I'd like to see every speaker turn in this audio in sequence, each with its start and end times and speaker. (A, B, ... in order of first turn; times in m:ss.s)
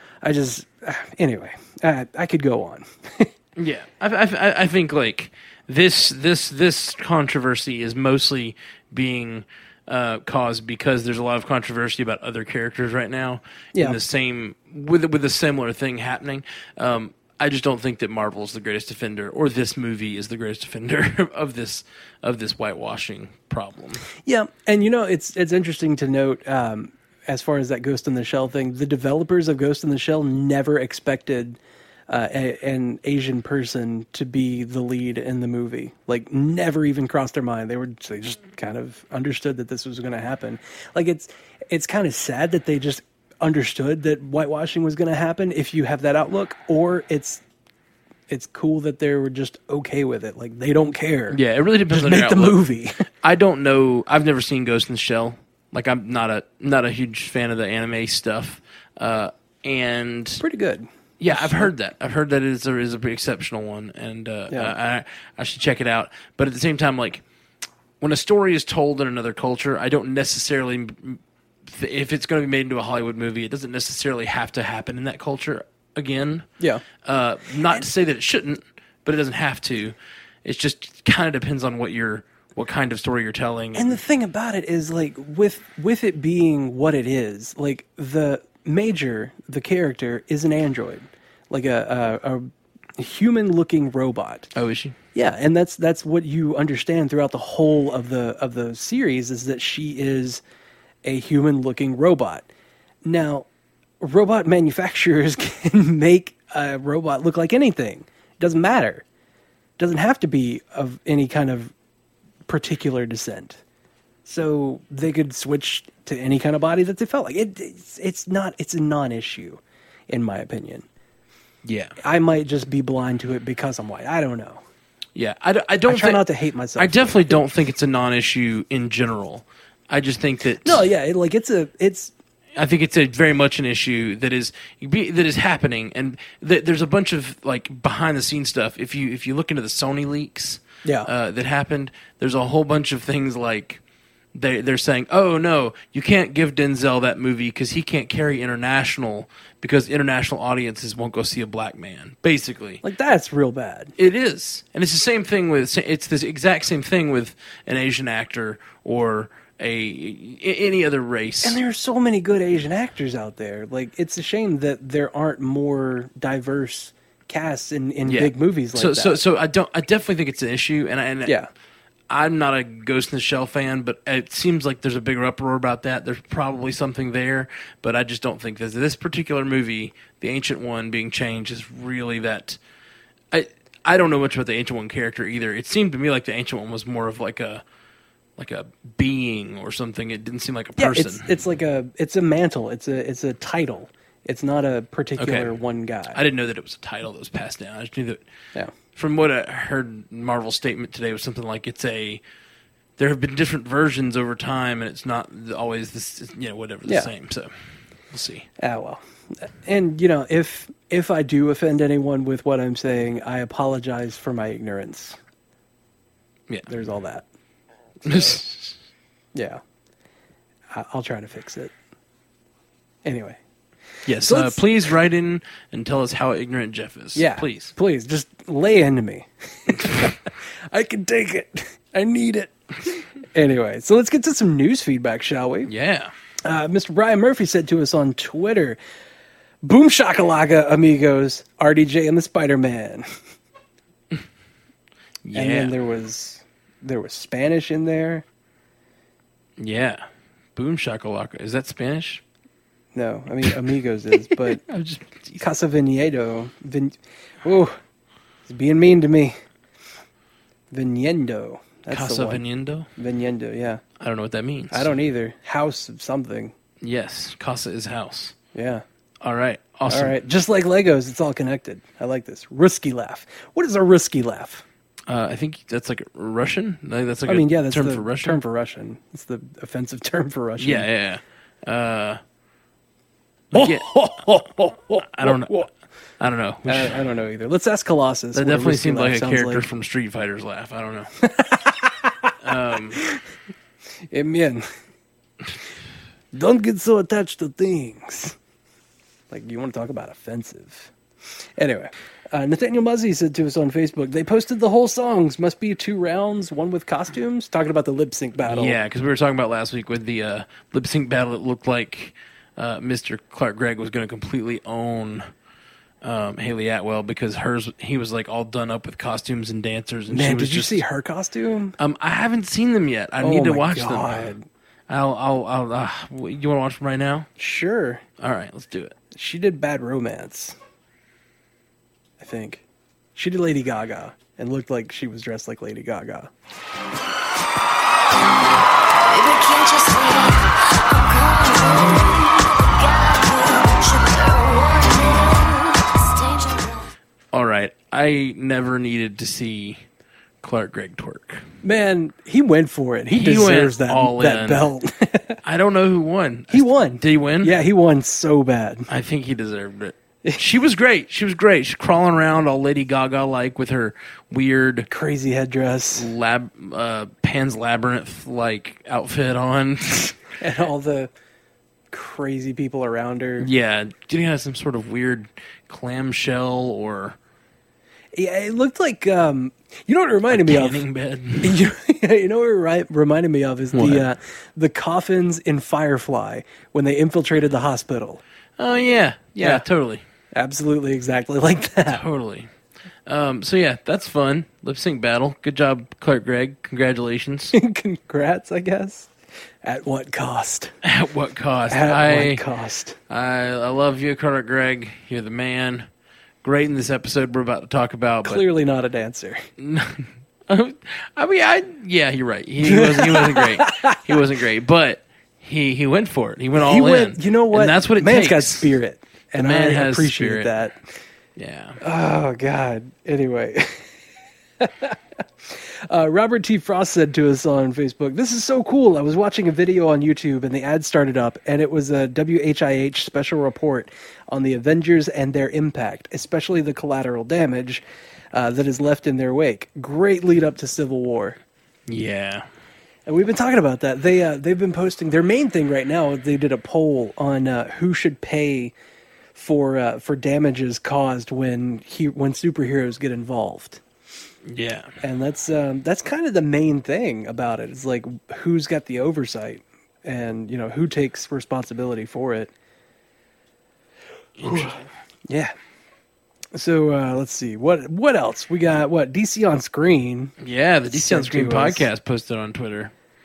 0:00.2-0:03.3 A
0:03.6-0:24.0 B
0:24.2-0:47.4 A
0:48.3-0:51.4 A
0:51.3-0:52.6 B
0:51.9-0:53.0 A
0:53.2-1:00.4 B
1:00.4-1:01.7 A
1:01.2-1:07.2 B
1:08.0-1:16.5 B
1:16.6-1:16.8 A
1:17.0-1:24.0 B
1:23.8-1:34.5 A
1:34.6-1:35.0 B
1:35.2-1:40.4 A
1:41.0-1:42.5 A
1:43.0-1:43.5 A
1:44.0-1:49.0 A
1:49.8-1:51.7 A
1:52.5-1:53.6 A
1:54.3-2:00.9 A
2:01.6-2:02.0 B
2:02.0-2:04.6 A
2:05.2-2:06.2 B
2:05.9-2:07.4 A
2:06.8-2:10.9 B
2:10.6-2:12.1 A
2:12.6-2:23.8 B
2:24.4-2:32.8 B
2:32.8-2:33.9 A
2:34.0-2:41.6 B
2:41.4-2:49.2 A
2:48.1-2:51.4 B
2:52.1-3:02.6 B
3:03.3-3:07.6 B
3:08.4-3:11.3 B
3:10.8-3:16.2 A
3:15.2-3:15.5 B
3:16.1-3:18.2 B
3:19.0-3:22.2 B
3:23.0-3:27.5 B
3:28.1-3:28.5 B
3:28.6-3:35.2 A
3:36.7-3:37.3 A
3:38.0-3:38.8 B
3:38.1-3:38.4 A
3:39.4-3:39.6 A
3:40.7-3:41.7 A
3:43.0-3:43.4 A
3:44.1-3:47.7 B
3:44.1-3:44.6 A
3:47.2-3:55.7 A
3:55.7-3:56.1 B
3:56.4-3:58.8 A
3:59.6-4:03.1 A
4:05.2-4:05.7 B
4:05.3-4:08.2 A
4:09.6-4:10.0 B
4:10.6-4:12.2 B
4:12.9-4:14.6 A
4:14.4-4:15.5 B
4:15.4-4:17.8 A
4:18.5-4:19.4 A
4:20.7-4:22.4 A
4:21.9-4:22.9 B
4:23.0-4:23.8 A
4:24.0-4:24.9 B
4:24.7-4:26.5 A
4:26.8-4:28.4 B
4:28.5-4:28.8 A
4:29.2-4:30.2 B
4:29.9-4:34.6 A
4:35.1-4:38.4 B
4:37.3-4:40.9 A
4:40.6-4:42.2 B
4:43.5-4:43.9 B
4:43.5-4:45.7 A
4:45.0-4:45.6 B
4:46.2-4:47.0 B
4:46.7-4:49.6 A
4:48.4-4:51.1 B
4:51.2-4:53.2 A
4:52.4-4:53.0 B
4:54.1-4:54.7 A
4:56.3-4:58.4 A
4:59.3-5:00.9 A
5:01.6-5:08.8 A
5:08.5-5:15.3 B
5:16.0-5:20.8 B
5:20.1-5:21.8 A
5:21.8-5:24.3 B
5:23.2-5:24.5 A
5:24.9-5:27.3 B
5:27.4-5:28.0 A
5:28.2-5:29.0 B
5:29.1-5:30.6 A
5:32.2-5:32.6 A
5:33.2-5:36.3 A
5:39.0-5:46.9 C
5:47.3-5:49.8 B
5:50.4-5:51.4 B
5:51.6-5:55.4 A
5:53.1-5:54.7 B
5:55.4-5:57.5 B
5:56.5-5:58.9 A
5:58.9-6:04.9 B
6:04.9-6:06.1 A
6:06.0-6:10.2 B
6:10.4-6:11.1 A
6:11.9-6:13.5 A
6:13.4-6:17.2 B
6:18.1-6:20.8 A
6:20.3-6:21.6 B
6:21.4-6:28.2 A
6:23.7-6:24.1 B
6:28.6-6:30.0 B
6:29.4-6:29.6 A
6:30.3-6:32.0 A
6:31.9-6:32.5 B
6:33.1-6:37.6 B
6:37.5-6:39.1 A
6:39.6-6:40.7 A
6:40.8-6:42.4 B
6:41.7-6:43.0 A
6:43.1-6:45.9 B
6:46.4-6:48.4 B
6:48.2-6:49.5 A
6:49.6-6:58.8 B
6:52.6-6:54.1 A
6:56.5-7:00.8 A
6:59.4-7:00.5 B
7:01.4-7:01.8 B
7:01.8-7:03.9 A
7:04.6-7:21.4 A
7:21.9-7:22.4 B
7:23.1-7:28.7 A
7:29.4-7:33.8 A
7:34.5-7:34.9 B
7:35.0-7:42.5 A
7:44.4-7:44.9 B
7:44.4-7:45.5 A
7:46.5-7:50.3 A
7:50.4-7:52.9 B
7:50.9-7:51.9 A